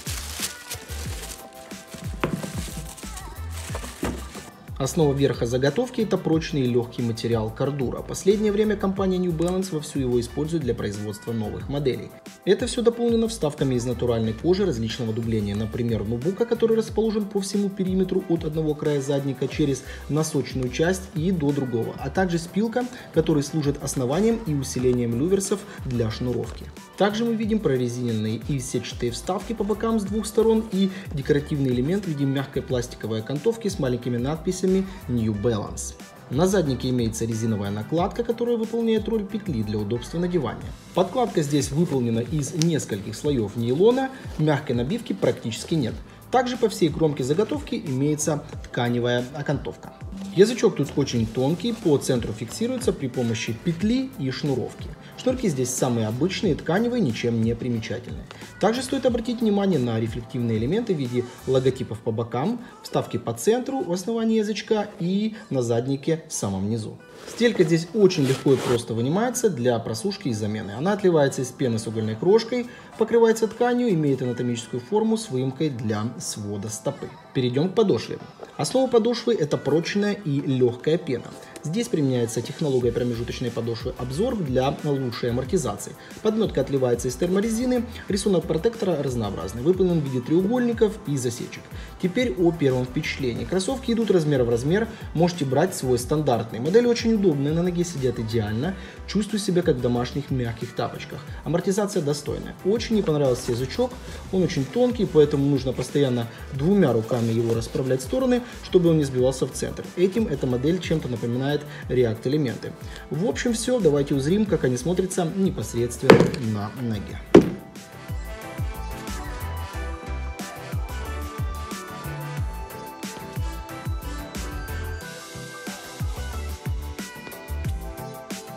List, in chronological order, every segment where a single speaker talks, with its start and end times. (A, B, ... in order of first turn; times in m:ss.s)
0:04.8-1:57.2 A